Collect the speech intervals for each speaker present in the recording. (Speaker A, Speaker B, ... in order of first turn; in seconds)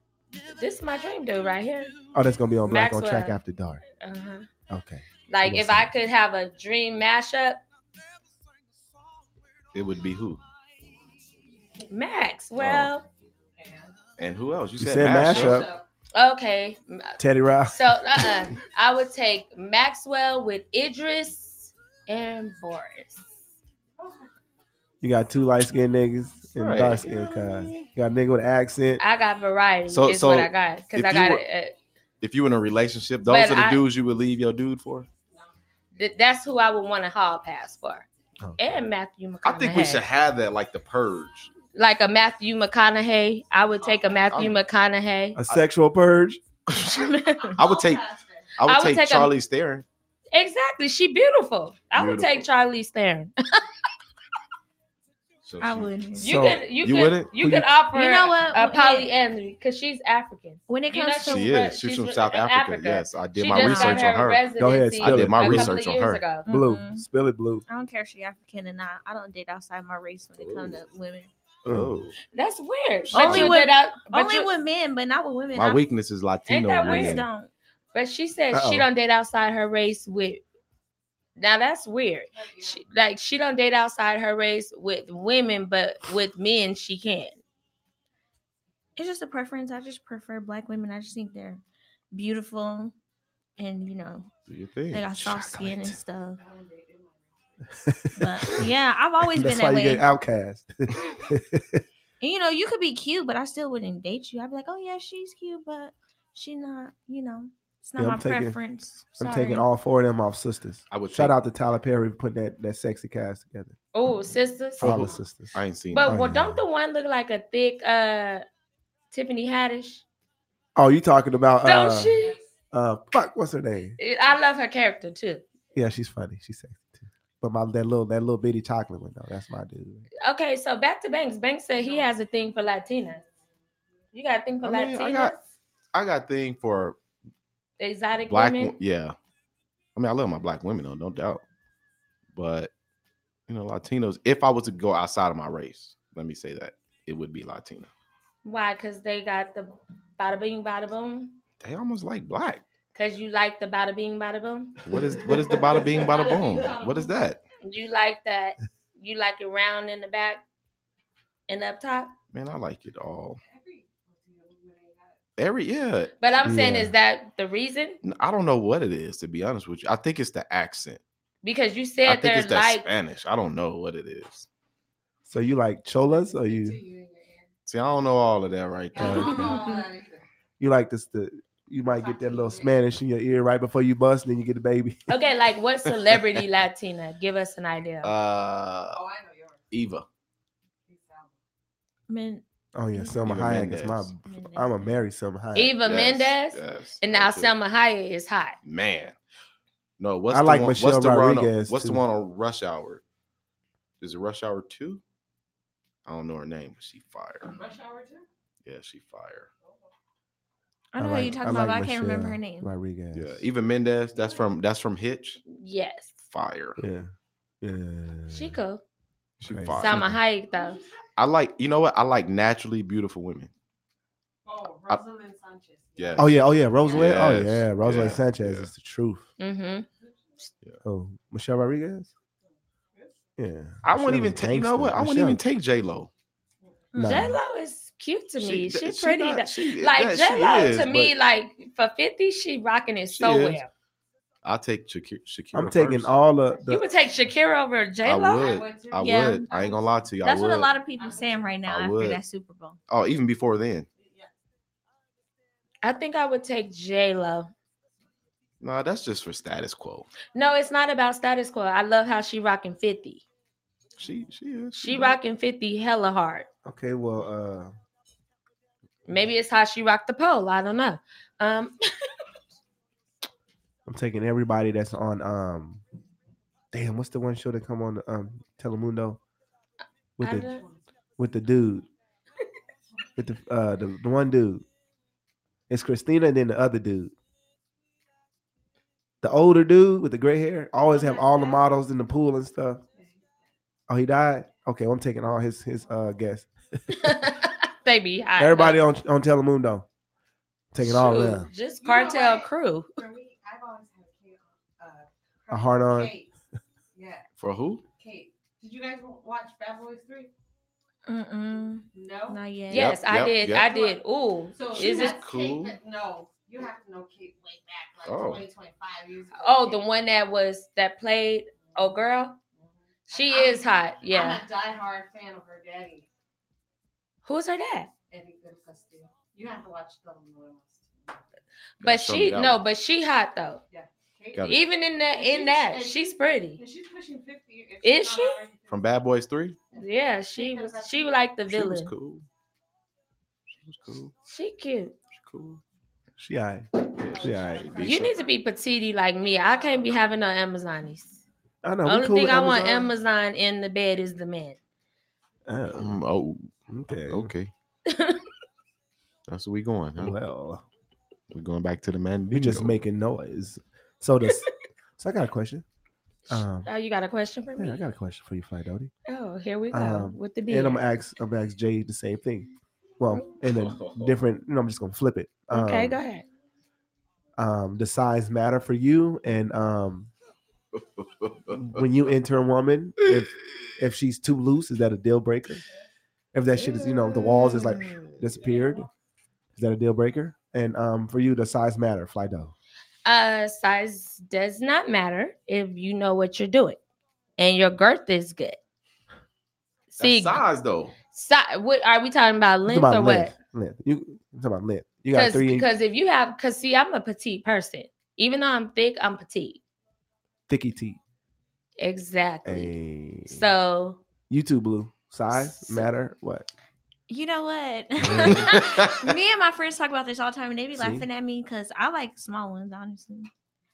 Speaker A: 0.5-1.9, 2.7-3.4, 4.0-4.5, 5.3-7.6, 11.9-13.1, 16.1-23.2, 29.0-31.8, 33.3-33.8, 36.0-38.1, 38.6-40.0, 41.7-45.4, 46.8-47.6, 48.6-49.3, 50.3-53.6, 56.2-66.5, 72.3-74.5, 76.5-77.2, 77.9-80.4, 81.4-87.4, 113.9-114.9, 115.9-118.4, 119.1-120.0, 121.6-122.4, 124.0-125.4, 130.2-133.2, 134.1-135.4, 137.8-138.8, 148.4-151.4, 152.9-154.8, 157.6-160.4, 161.5-162.1, 166.2-168.0, 171.4-172.9, 185.1-188.1, 195.6-198.6, 215.5-216.2, 218.3-218.8, 219.8-220.8, 229.4-229.9, 236.9-243.7, 246.7-248.6, 255.8-257.5, 260.4-263.2, 264.8-266.5, 269.1-271.8, 280.2-280.6, 296.9-298.8, 300.8-302.9, 312.7-315.2, 319.4-322.4, 323.1-324.4, 327.2-327.9, 331.8-333.6, 334.4-336.6, 337.8-338.4, 339.8-341.9, 344.3-344.9, 347.8-351.2, 351.9-354.6, 357.9-358.2, 366.3-367.8, 369.1-370.8, 375.5-376.2, 393.1-396.8, 397.4-398.6, 399.9-400.4, 401.1-403.3, 405.1-409.6, 411.8-412.7, 413.3-414.0
Speaker B: 2.1-3.8, 4.7-5.9, 14.8-15.7, 17.2-18.4, 25.0-29.0, 45.4-46.4, 56.2-56.6, 57.4-57.7, 64.6-65.8, 66.5-67.7, 71.7-72.0, 78.5-78.9, 95.2-96.0, 97.8-98.6, 99.3-101.8, 108.0-108.6, 109.2-113.8, 114.8-116.6, 120.8-122.1, 122.7-124.0, 125.8-130.1, 166.4-166.9, 175.3-176.8, 179.0-179.5, 180.6-185.1, 192.8-195.8, 200.3-202.0, 211.0-213.4, 216.8-217.1, 217.6-218.6, 219.5-220.2, 226.2-229.3, 230.8-232.1, 233.4-235.4, 236.9-237.4, 245.5-246.8, 266.6-267.7, 273.9-275.8, 276.7-279.2, 280.2-280.6, 281.2-281.9, 283.2-284.6, 285.7-287.1, 289.2-292.8, 293.9-296.5, 298.4-299.9, 300.7-301.5, 305.5-306.1, 346.2-347.7, 351.6-352.9, 355.5-356.0, 356.7-357.3, 360.0-360.6, 362.3-364.5, 365.0-365.6, 366.3-366.7, 367.6-368.9, 369.7-376.0, 377.4-380.1, 381.5-385.6, 386.3-388.9, 389.6-392.5, 402.7-405.7, 410.5-411.0, 412.4-413.5, 414.3-416.5, 418.0-418.6, 420.8-421.1
Speaker C: 9.7-10.4, 12.6-12.9, 14.2-15.7, 26.6-27.8, 29.9-31.4, 32.2-35.1, 39.4-41.5, 44.3-44.6, 47.6-48.0, 48.6-49.9, 51.9-52.5, 55.4-55.9, 56.8-57.3, 61.2-64.4, 65.0-66.2, 70.4-70.8, 71.7-72.2, 73.1-73.5, 75.5-77.3, 94.5-95.3, 110.9-111.4, 114.8-116.2, 134.6-135.3, 135.9-137.0, 138.3-139.2, 140.0-141.4, 142.3-142.7, 143.5-147.9, 151.6-152.6, 154.8-157.4, 162.3-163.4, 165.4-166.1, 168.0-171.0, 172.1-174.5, 177.7-179.6, 188.0-189.0, 189.7-190.1, 193.2-194.1, 195.8-197.5, 198.6-199.2, 200.0-203.0, 204.0-205.0, 206.1-207.6, 208.7-209.5, 213.1-215.4, 216.3-216.8, 219.4-220.1, 221.2-223.5, 226.0-226.3, 226.9-228.7, 233.8-236.1, 238.4-241.1, 243.1-243.6, 244.4-246.2, 248.1-250.7, 251.7-252.2, 252.9-253.9, 258.6-260.1, 264.0-265.2, 307.4-307.8, 312.7-313.7, 314.8-315.8, 318.1-318.4, 331.8-332.6, 338.7-339.6, 341.5-342.2, 343.6-344.1, 345.1-345.6, 346.9-348.1, 355.7-357.5, 359.3-360.2, 361.3-362.8, 373.4-374.2, 380.8-381.8, 386.7-388.3, 400.0-400.9, 418.1-419.1
Speaker D: 13.6-14.0, 15.2-15.8, 24.0-24.3, 47.4-48.5, 82.3-82.8, 96.4-97.8, 122.1-122.4, 131.8-132.2, 155.7-157.1, 163.4-165.2, 176.1-177.5, 178.9-180.2, 181.9-182.8, 188.9-189.7, 190.9-191.4, 207.5-208.3, 214.2-214.4, 220.5-220.9, 224.4-227.1, 248.4-250.1, 251.0-251.5, 254.0-254.3, 280.5-280.8, 290.9-291.7, 293.0-293.3, 301.8-306.3, 306.9-307.3, 308.0-310.3, 311.9-312.4, 313.5-314.0, 314.5-319.8, 323.1-326.1, 328.1-331.2, 333.7-334.6, 335.1-338.8, 340.4-341.2, 347.1-348.4, 349.5-349.9
Speaker E: 55.6-56.4, 57.9-59.1, 60.7-61.5, 63.5-64.2, 66.5-67.0, 67.7-71.3, 73.1-75.8, 76.8-77.5, 89.0-93.0, 93.6-94.3, 94.9-96.4, 98.2-100.0, 102.2-109.7, 192.1-193.2, 194.3-194.7, 210.9-212.7, 249.0-249.5, 250.2-252.8, 311.1-313.0, 415.3-415.9, 417.1-423.3